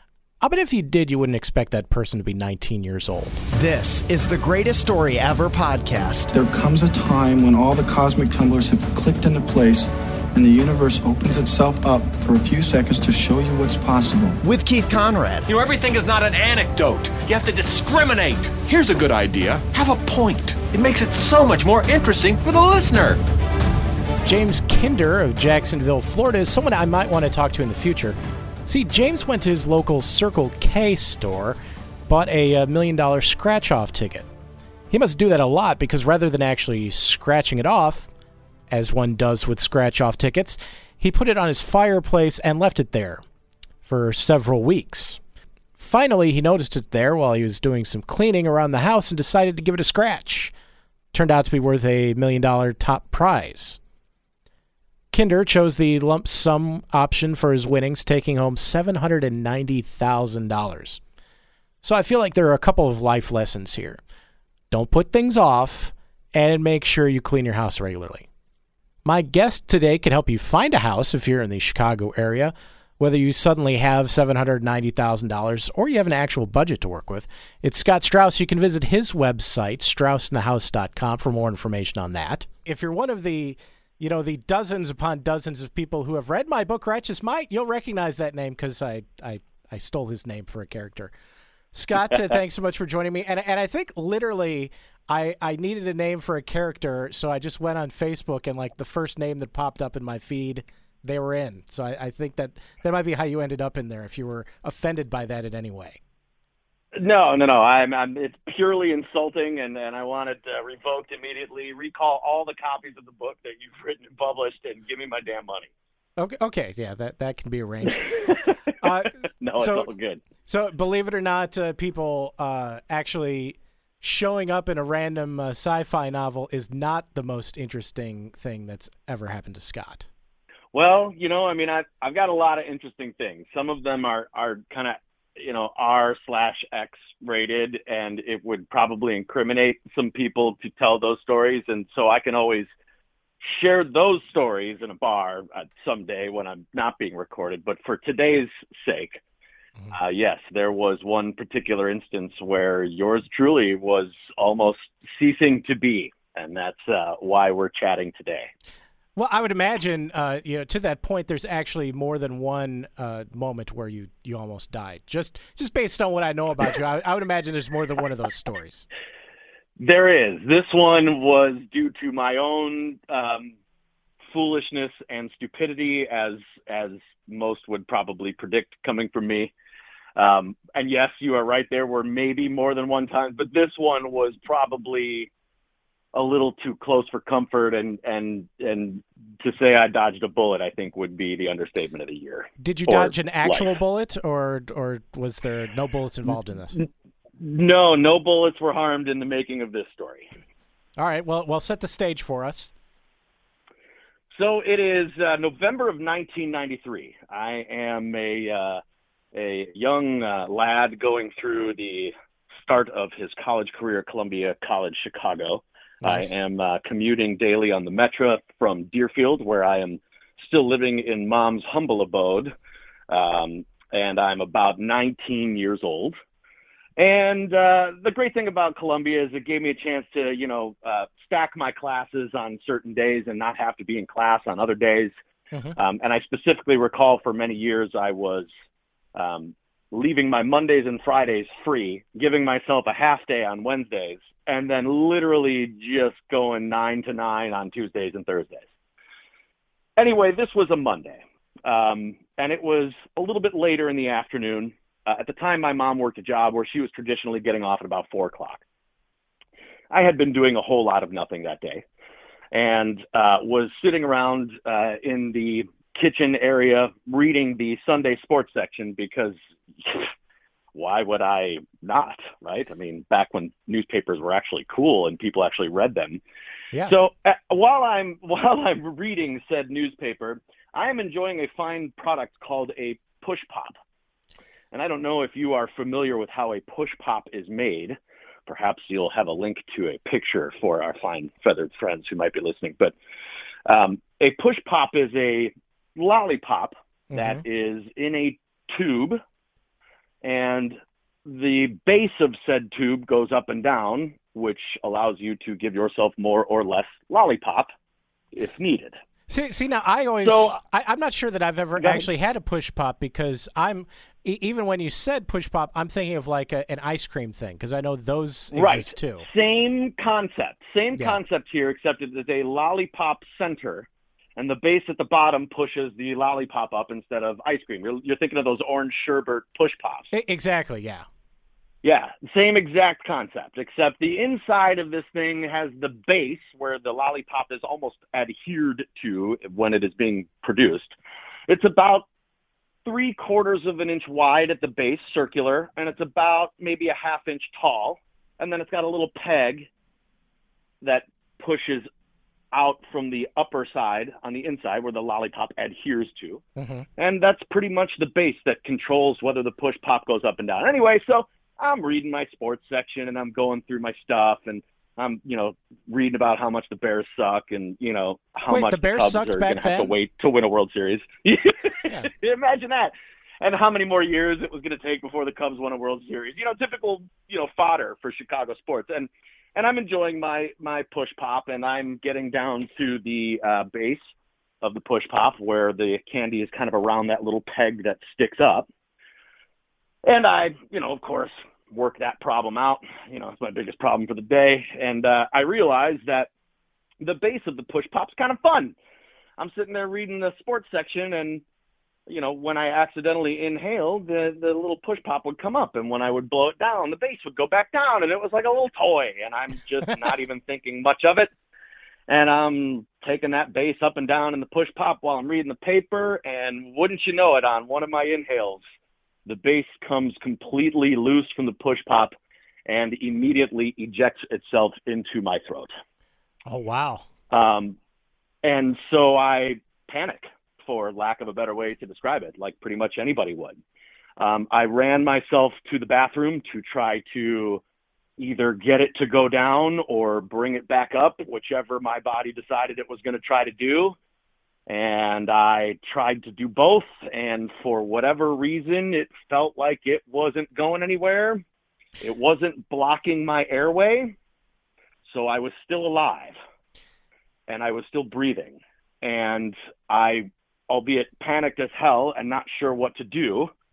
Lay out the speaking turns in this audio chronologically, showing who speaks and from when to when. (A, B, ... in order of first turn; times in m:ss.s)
0:00.4-0:03.4 A
0:03.5-0:06.3 B
0:06.3-0:14.4 C
0:14.4-0:15.5 B
0:15.5-0:23.2 D
0:24.2-0:31.6 A
0:32.1-0:34.3 A
0:34.9-0:38.1 A
0:38.7-0:43.2 A
0:43.8-0:45.2 A
0:45.8-0:50.5 A
0:51.1-0:53.8 A
0:55.1-1:01.0 A
1:01.8-1:04.0 A
1:04.7-1:08.3 A
1:09.0-1:31.1 A
1:31.7-1:46.0 A
1:47.0-1:55.7 E
1:56.2-1:58.3 A
1:58.8-1:59.9 A
1:59.4-2:00.2 E
2:00.4-2:10.1 A
2:10.7-2:22.7 E
2:23.4-2:29.2 E
2:29.9-2:38.5 E
2:39.2-2:48.9 A
2:49.8-2:53.5 E
2:54.3-2:59.5 E
3:00.2-3:05.3 E
3:06.1-3:13.7 E
3:12.6-3:16.8 A
3:17.4-3:20.3 E
3:21.0-3:22.7 A
3:24.3-3:28.8 E
3:29.3-3:42.5 E
3:36.0-3:36.4 A
3:43.1-3:46.2 E
3:47.0-3:55.1 E
3:55.8-3:58.5 E
3:59.2-4:08.7 E
4:10.0-4:18.6 E
4:19.9-4:21.8 E
4:22.5-4:30.1 E
4:30.7-4:36.2 E
4:36.9-4:43.7 E
4:44.7-4:53.0 E
4:53.7-4:59.2 E
4:57.1-4:57.4 A
5:00.2-5:00.8 E
5:01.3-5:07.7 E
5:08.3-5:09.0 E
5:09.3-5:19.2 A
5:10.2-5:10.6 E
5:11.8-5:12.1 E
5:18.5-5:30.1 E
5:30.1-5:31.1 A
5:31.8-5:41.0 E
5:41.5-5:42.1 E
5:42.9-5:49.7 E
5:50.8-5:51.9 E
5:52.5-5:56.4 E
5:56.6-5:56.9 A
5:57.0-6:24.0 E
6:08.5-6:09.9 A
6:24.6-6:28.7 E
6:30.1-6:36.3 E
6:37.0-6:38.8 E
6:39.4-6:41.4 E
6:42.1-6:51.3 E
6:52.1-6:58.6 E
6:59.3-7:02.1 E
7:02.7-7:05.7 E
7:06.5-7:07.0 A
7:07.3-7:07.8 E
7:08.4-7:13.6 E
7:14.2-7:17.6 E
7:18.2-7:23.9 E
7:24.7-7:31.4 E
7:32.0-7:34.1 E
7:35.1-7:36.4 E
7:37.5-7:43.5 E